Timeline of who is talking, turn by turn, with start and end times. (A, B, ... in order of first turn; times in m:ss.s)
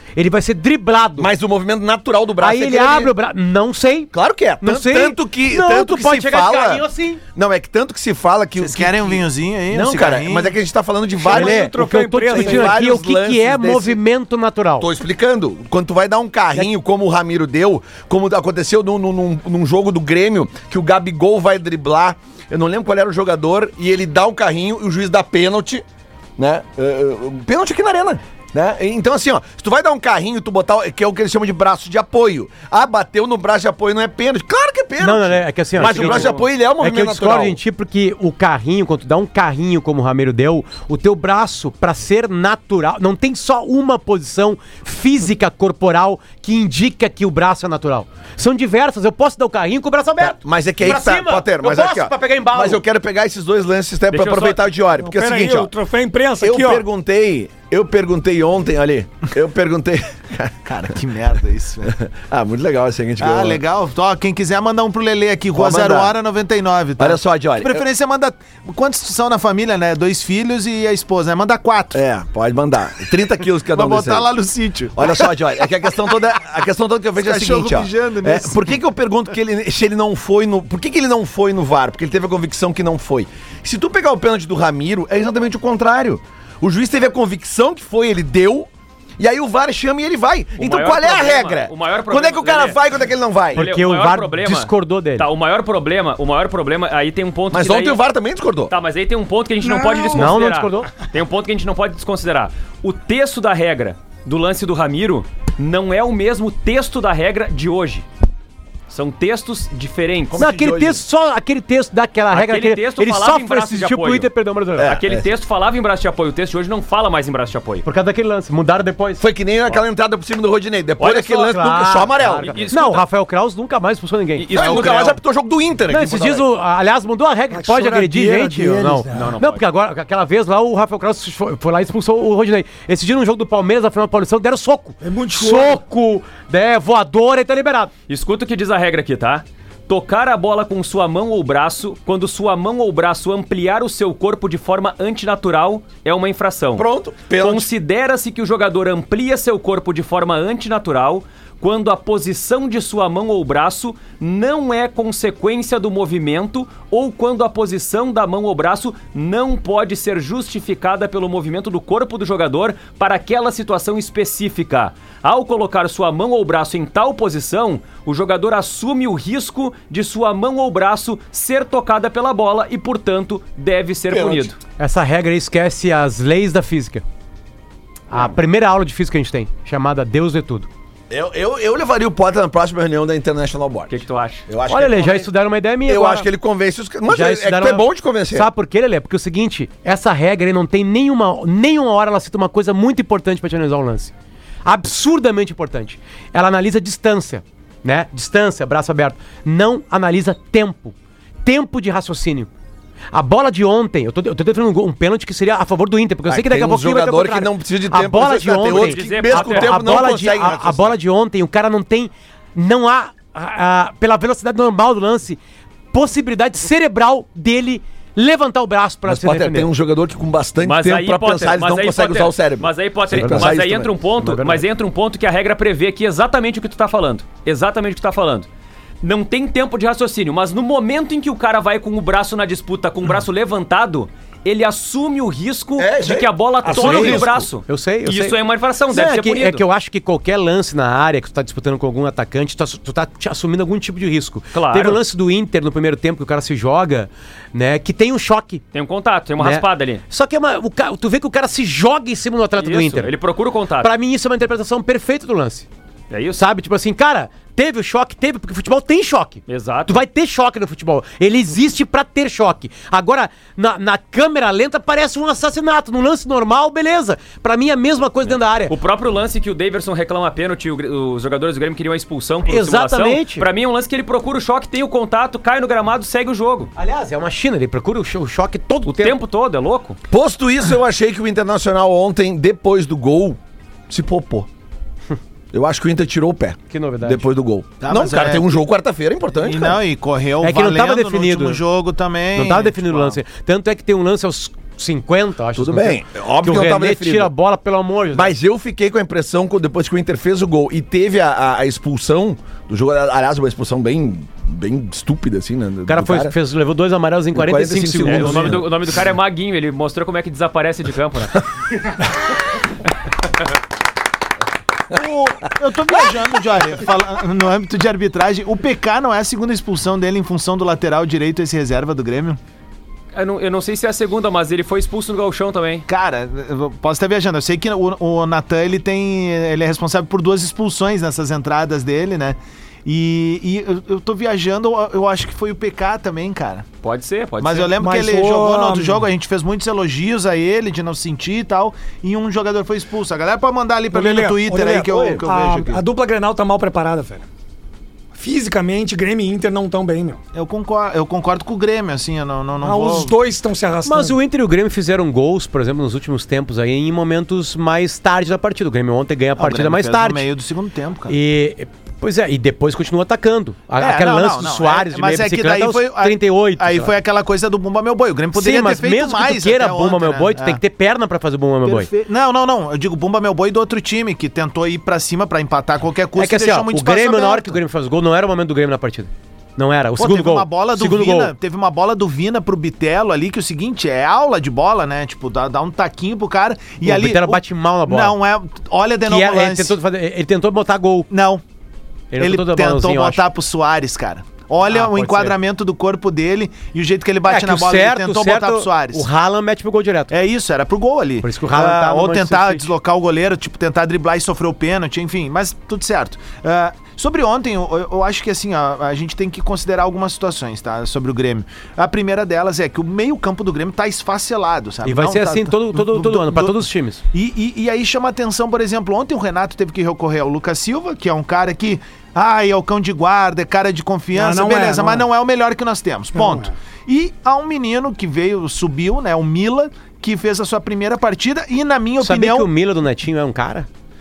0:00.2-0:01.3 A
0:01.2-0:03.1 B
0:02.4-0:07.2 A
0:04.1-0:14.0 B
0:08.6-0:10.6 C
0:11.2-0:12.8 D
0:11.3-0:14.9 A
0:14.8-0:25.8 B
0:26.4-0:37.6 B
0:35.0-0:52.8 A
0:35.8-0:36.5 E
0:50.2-0:55.7 B
0:54.1-0:54.7 E
0:55.0-0:56.8 D
0:56.4-1:01.0 B
1:00.7-1:02.0 C
1:01.8-1:03.6 B
1:03.2-1:12.0 C
1:05.5-1:06.2 B
1:07.0-1:07.9 B
1:11.9-1:14.3 B
1:13.7-1:15.3 C
1:15.0-1:33.7 B
1:17.2-1:18.8 C
1:30.6-1:32.8 E
1:33.5-1:38.0 E
1:33.6-1:35.3 A
1:37.5-1:38.7 B
1:38.7-1:48.1 E
1:40.1-1:40.9 A
1:48.9-1:50.4 E
1:50.3-1:51.0 B
1:50.4-1:55.0 A
1:52.3-1:54.3 E
1:54.8-1:55.3 B
1:54.8-1:57.9 E
1:57.8-1:59.2 A
1:59.2-2:02.6 B
2:01.0-2:01.4 E
2:01.3-2:04.6 A
2:02.3-2:03.0 E
2:04.4-2:05.2 E
2:04.5-2:06.5 B
2:05.9-2:17.9 A
2:07.5-2:09.4 D
2:09.1-2:09.6 E
2:15.0-2:15.8 D
2:18.1-2:54.6 E
2:26.8-2:27.7 B
2:54.1-2:54.5 B
2:54.8-2:57.0 A
2:58.1-3:00.7 A
3:01.1-3:05.3 B
3:03.9-3:04.5 E
3:04.7-3:06.3 A
3:05.9-3:08.5 B
3:07.1-3:14.1 A
3:14.6-3:22.5 A
3:23.1-3:35.4 A
3:26.3-3:30.9 B
3:28.7-3:30.0 E
3:35.9-3:39.7 A
3:39.1-3:43.9 B
3:40.6-3:48.5 E
3:43.1-3:43.6 A
3:44.2-3:44.6 A
3:49.0-3:59.6 E
3:55.8-3:57.5 B
3:56.7-3:57.2 D
3:56.7-3:58.4 A
3:58.9-4:08.6 A
4:04.5-4:05.0 E
4:08.7-4:10.0 E
4:09.4-4:13.1 A
4:12.6-4:13.9 E
4:13.8-4:15.7 A
4:16.1-4:16.4 E
4:16.4-4:28.7 A
4:19.5-4:20.0 E
4:28.3-4:36.7 E
4:32.5-4:33.5 A
4:36.8-4:39.2 A
4:38.9-4:40.0 E
4:40.1-4:43.4 B
4:43.9-4:44.5 B
4:45.5-4:49.8 B
4:46.7-4:47.3 A
4:47.8-4:48.5 C
4:49.4-4:53.2 C
4:50.4-4:51.6 A
4:52.4-4:58.4 A
4:55.6-4:57.3 B
4:58.1-5:06.4 B
5:05.9-5:08.6 A
5:07.3-5:08.7 B
5:08.0-5:11.4 E
5:14.9-5:22.4 C
5:23.1-5:25.9 E
5:25.9-5:36.7 C
5:36.8-5:37.7 E
5:37.4-5:45.8 C
5:37.8-5:39.0 D
5:43.9-5:47.3 D
5:48.1-5:50.2 D
5:50.3-5:53.2 C
5:52.6-5:54.2 D
5:53.8-6:00.2 A
5:59.4-6:01.2 C
6:01.1-6:06.9 A
6:03.8-6:10.6 C
6:08.4-6:11.9 A
6:11.6-6:17.6 C
6:16.2-6:21.3 A
6:20.0-6:29.8 C
6:26.8-6:28.2 A
6:29.0-6:31.1 A
6:31.1-6:31.4 C
6:32.1-6:33.3 A
6:32.2-6:39.1 C
6:34.7-6:35.4 A
6:37.2-6:40.1 A
6:40.1-7:12.5 C
6:41.2-6:42.7 A
6:54.8-6:57.0 A
7:04.1-7:05.1 D
7:06.2-7:06.5 D
7:12.0-7:13.7 A